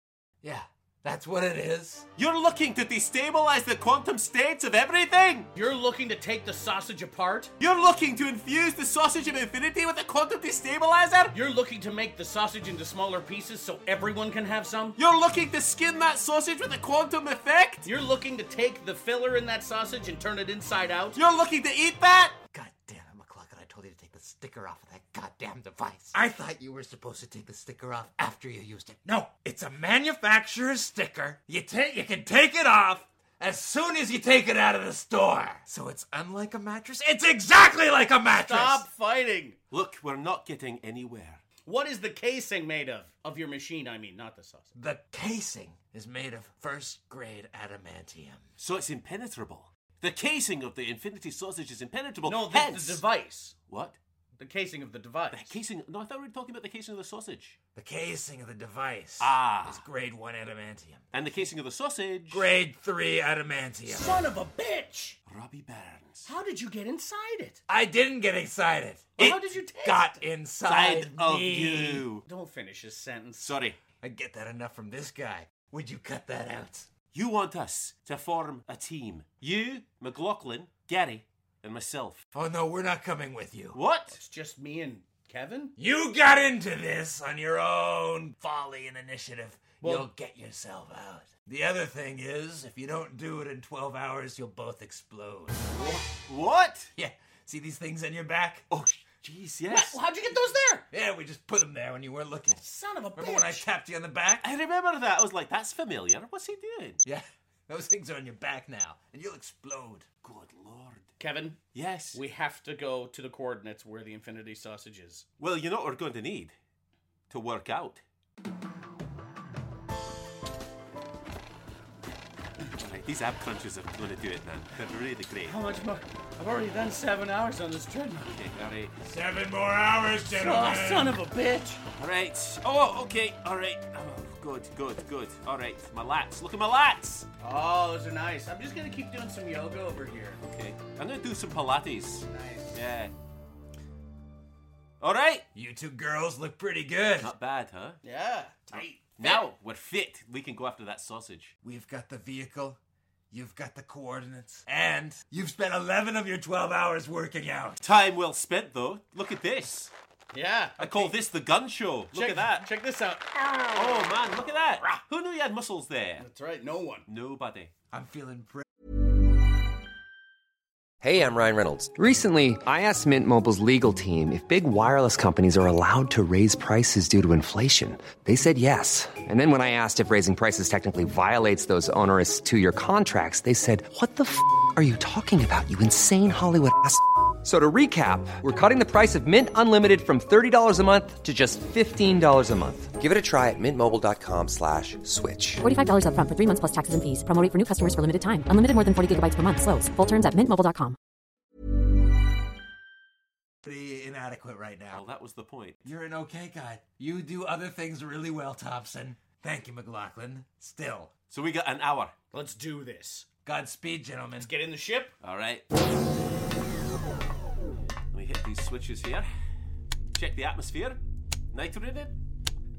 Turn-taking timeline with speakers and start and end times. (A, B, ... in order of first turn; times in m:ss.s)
0:00.4-0:02.1 A
0:02.2-0:05.5 B
0:05.5-0:07.5 C
0:07.6-0:11.4 B
0:11.3-0:15.0 C
0:15.0-0:17.9 B
0:17.8-0:21.2 C
0:21.1-0:22.4 B
0:22.5-0:38.9 A
0:38.4-0:39.6 C
0:39.7-0:41.4 B
0:41.6-0:44.7 C
0:44.7-0:48.5 A
0:48.6-0:53.0 B
0:52.2-0:53.5 C
0:53.7-0:54.0 B
0:54.4-0:55.6 C
0:55.3-0:57.6 B
0:57.7-1:01.4 A
0:59.2-0:59.8 B
1:01.1-1:02.5 B
1:02.3-1:04.2 A
1:03.8-1:05.2 C
1:05.3-1:06.3 B
1:06.2-1:07.6 C
1:07.7-1:12.0 A
1:09.2-1:10.2 C
1:10.6-1:12.2 B
1:12.2-1:13.5 C
1:13.4-1:13.8 B
1:14.0-1:16.9 A
1:17.1-1:22.2 B
1:22.3-1:23.8 A
1:23.7-1:24.2 B
1:24.1-1:25.7 C
1:25.8-1:35.8 A
1:29.8-1:30.1 C
1:35.9-1:36.9 B
1:37.0-1:38.6 A
1:38.7-1:40.0 B
1:39.7-1:40.8 C
1:40.9-1:44.5 A
1:42.6-1:43.6 C
1:44.4-1:47.0 B
1:47.0-1:50.1 A
1:50.2-1:51.1 B
1:51.2-1:51.6 C
1:51.7-1:52.2 B
1:52.1-1:55.2 C
1:55.4-1:56.5 B
1:57.3-1:58.0 B
2:02.7-2:05.6 B
2:05.4-2:08.4 C
2:08.3-2:09.0 B
2:09.0-2:11.2 A
2:10.2-2:11.8 C
2:12.0-2:17.3 B
2:17.4-2:20.4 C
2:20.5-2:23.1 B
2:22.3-2:22.8 C
2:25.0-2:25.4 B
2:25.5-2:27.3 A
2:27.2-2:28.0 B
2:28.0-2:29.4 C
2:28.8-2:31.5 B
2:31.6-2:32.8 A
2:33.3-2:37.8 A
2:37.8-2:39.9 B
2:40.3-2:41.2 C
2:40.8-2:42.7 B
2:42.1-2:44.0 C
2:43.7-2:46.2 B
2:46.2-2:47.0 C
2:47.1-2:47.7 B
2:47.9-2:48.6 A
2:51.0-3:15.6 D
3:15.6-3:21.0 E
3:23.6-3:25.0 A
3:24.9-3:25.8 B
3:25.8-3:31.1 A
3:31.3-3:32.1 B
3:32.3-3:33.3 C
3:33.4-3:34.5 A
3:34.4-3:35.1 C
3:35.2-3:35.6 B
3:38.1-3:39.3 B
3:40.1-3:41.0 B
3:41.5-3:42.1 B